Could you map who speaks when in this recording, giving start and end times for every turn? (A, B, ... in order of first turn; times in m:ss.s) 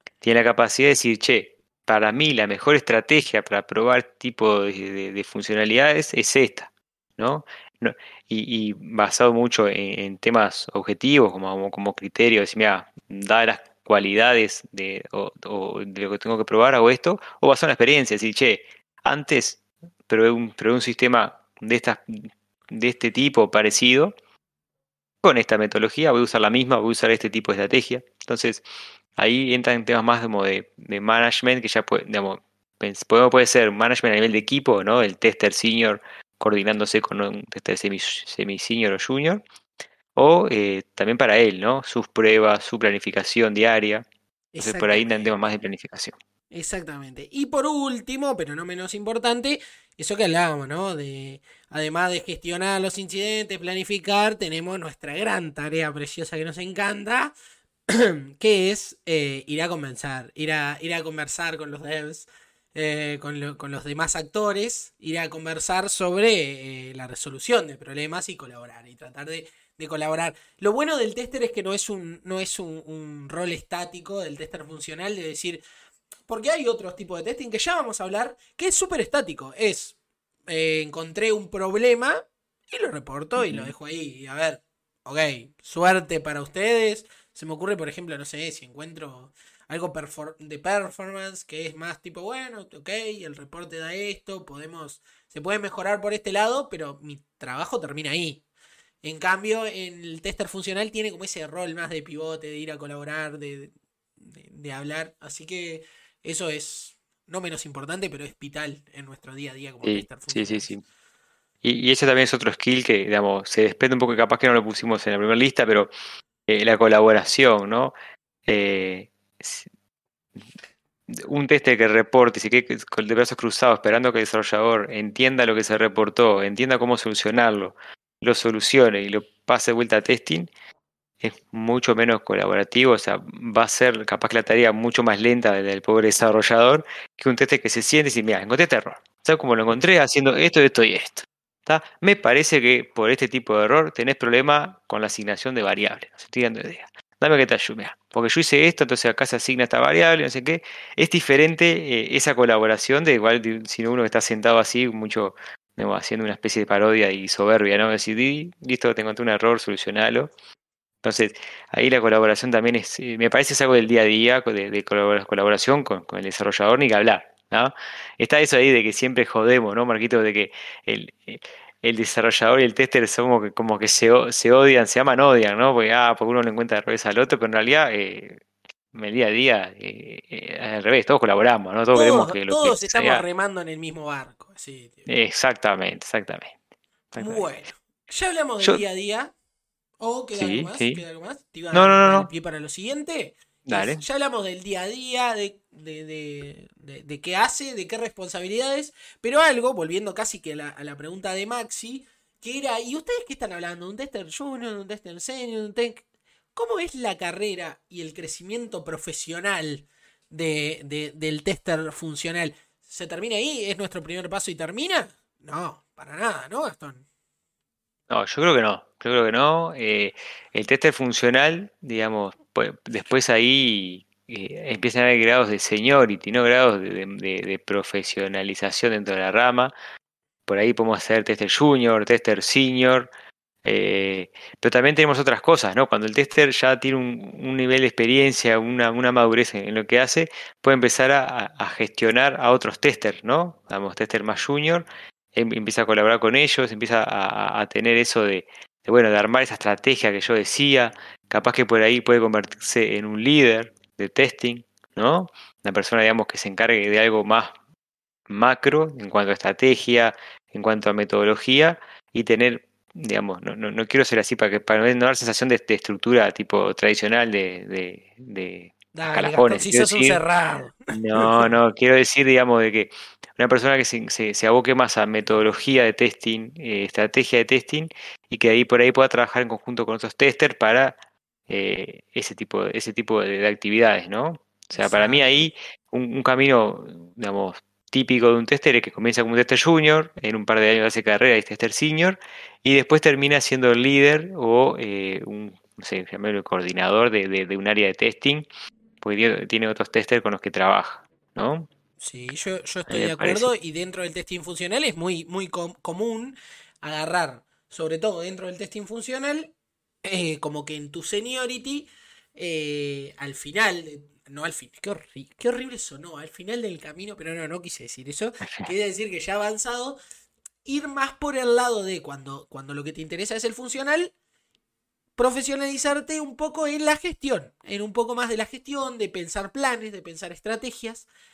0:00.2-0:22.2 A
0:22.7-0:24.1 A
0:25.2-0:28.6 A
0:29.2-0:39.4 A
0:40.2-0:44.1 A
0:44.5-0:45.3 B
0:44.6-0:46.2 A
0:46.5-0:57.3 B
0:57.9-1:15.6 B
1:16.3-1:20.0 B
1:20.5-1:38.4 B
1:23.4-1:23.7 A
1:39.0-1:50.7 B
1:49.8-1:50.8 A
1:51.6-1:55.9 A
1:56.5-1:57.9 A
1:58.5-1:59.7 A
2:01.1-2:10.5 A
2:11.2-2:40.3 A
2:41.0-3:03.2 A
3:01.9-3:05.0 B
3:05.1-3:06.5 A
3:07.1-3:07.5 A
3:07.2-3:09.3 B
3:10.0-3:26.0 B
3:10.4-3:11.0 A
3:11.7-3:12.3 A
3:13.7-3:14.0 A
3:26.6-3:37.0 B
3:38.1-3:49.7 A
3:50.5-3:53.1 A
3:53.6-4:17.6 A
4:18.3-4:30.2 A
4:28.9-4:31.6 B
4:30.9-4:41.0 A
4:41.5-4:58.5 A
4:44.7-4:45.3 B
4:59.0-5:01.7 A
5:02.0-5:09.5 B
5:02.9-5:03.5 A
5:10.0-5:20.0 B
5:18.4-5:18.7 A
5:20.6-5:24.1 B
5:25.2-5:31.1 B